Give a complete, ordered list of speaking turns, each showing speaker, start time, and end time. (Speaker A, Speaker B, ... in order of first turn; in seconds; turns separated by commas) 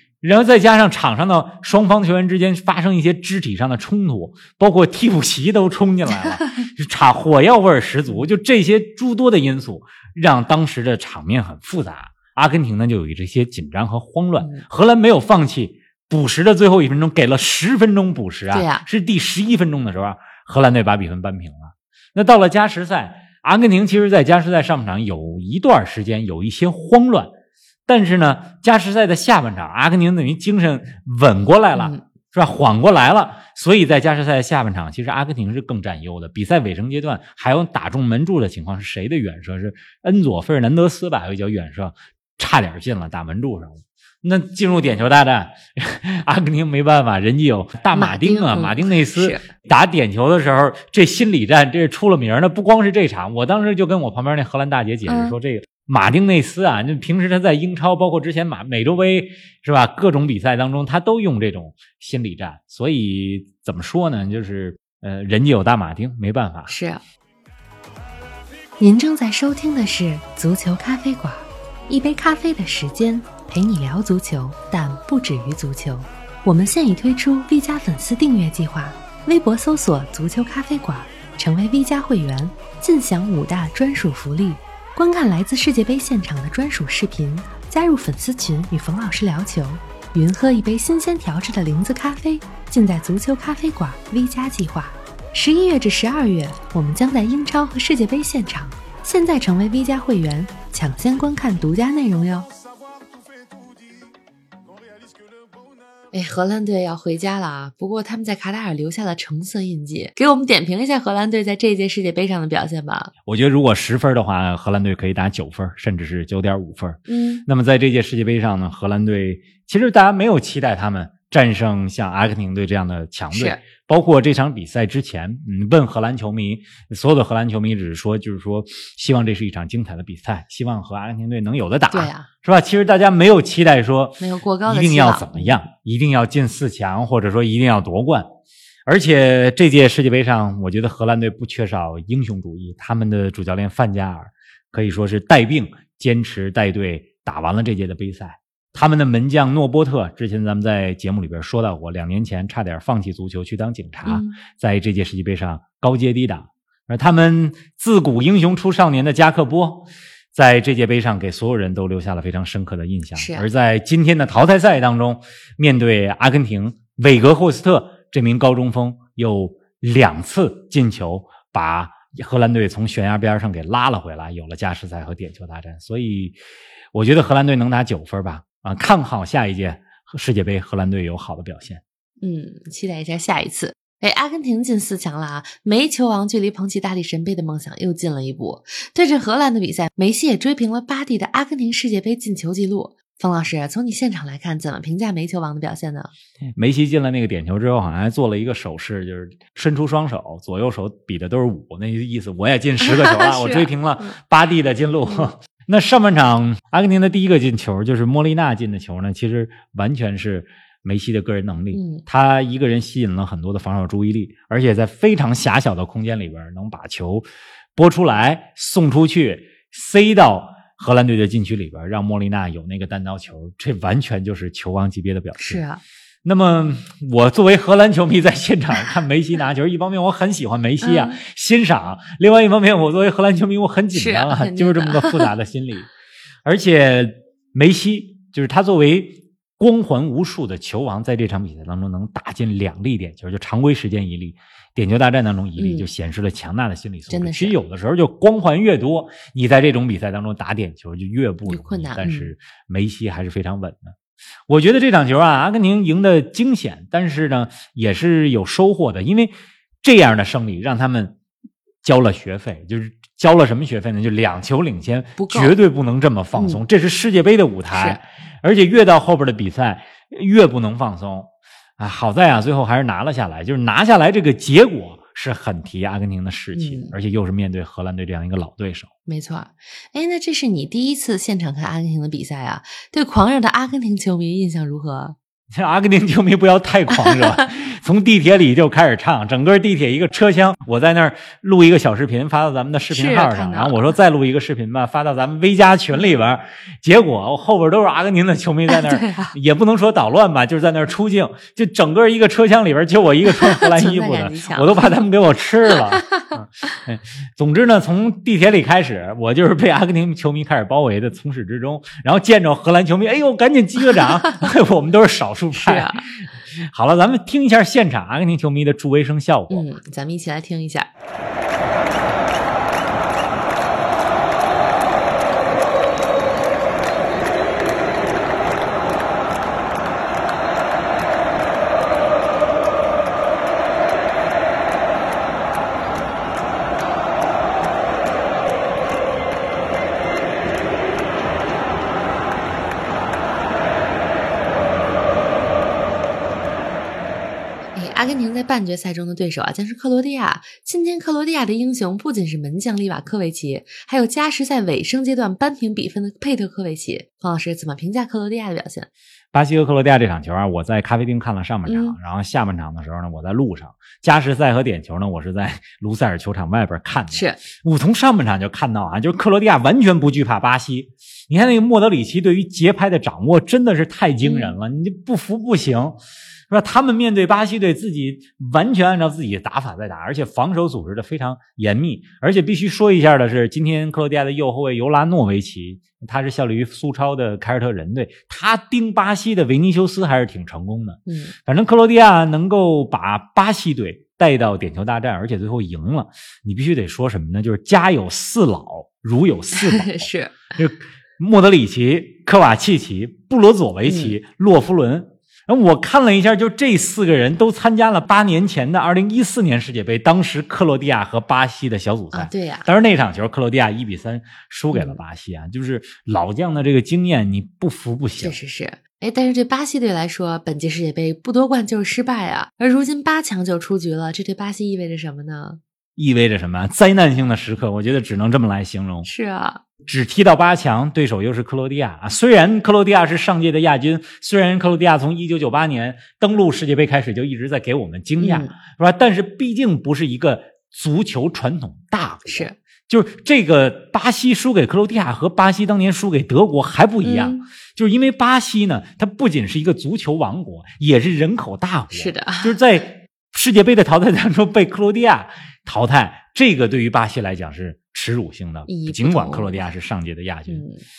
Speaker A: 0.2-27.3, Speaker B: 6.1-6.6, Speaker B: 14.4-14.6, Speaker B: 18.5-18.9, Speaker A: 27.9-66.7, Speaker B: 31.7-32.0, Speaker B: 47.9-49.5, Speaker B: 55.0-55.4, Speaker B: 66.7-67.0, Speaker B: 68.8-102.5, Speaker B: 106.1-113.1, Speaker A: 113.2-138.3, Speaker B: 117.1-117.4, Speaker B: 123.3-123.6, Speaker B: 131.9-132.3, Speaker B: 134.2-135.6, Speaker A: 138.8-176.3, Speaker B: 154.0-154.4, Speaker B: 163.1-163.4, Speaker A: 176.9-181.8, Speaker B: 182.2-196.1, Speaker A: 196.6-217.2, Speaker B: 202.8-204.1, Speaker B: 211.7-212.0, Speaker A: 217.8-225.6, Speaker B: 225.4-225.8, Speaker A: 226.2-235.9, Speaker B: 230.8-231.2, Speaker B: 233.9-235.3, Speaker A: 236.4-253.9, Speaker B: 245.6-245.9, Speaker B: 247.1-247.6, Speaker B: 251.5-252.3, Speaker A: 254.5-261.2, Speaker A: 261.8-278.9, Speaker B: 265.2-265.6, Speaker B: 266.3-266.6, Speaker B: 267.7-268.0, Speaker B: 276.5-276.9, Speaker B: 279.1-285.1, Speaker A: 285.5-319.7, Speaker B: 286.9-287.4, Speaker B: 292.9-293.9, Speaker B: 298.7-299.3, Speaker B: 303.3-304.9, Speaker B: 306.0-306.3, Speaker B: 315.5-316.1, Speaker B: 319.5-320.9, Speaker B: 347.7-358.9, Speaker A: 359.3-376.0, Speaker B: 361.6-361.9, Speaker B: 367.1-367.4, Speaker B: 374.2-374.6, Speaker A: 376.5-418.4, Speaker B: 391.1-391.3, Speaker B: 399.5-400.4, Speaker B: 403.8-404.1, Speaker B: 412.1-412.7, Speaker B: 414.7-415.0, Speaker B: 418.2-425.6, Speaker A: 426.0-429.1, Speaker B: 429.0-429.6, Speaker A: 429.8-460.6, Speaker B: 438.2-438.5, Speaker B: 442.2-442.6, Speaker B: 447.0-447.4, Speaker B: 451.9-452.6, Speaker B: 458.6-459.7, Speaker B: 460.5-460.8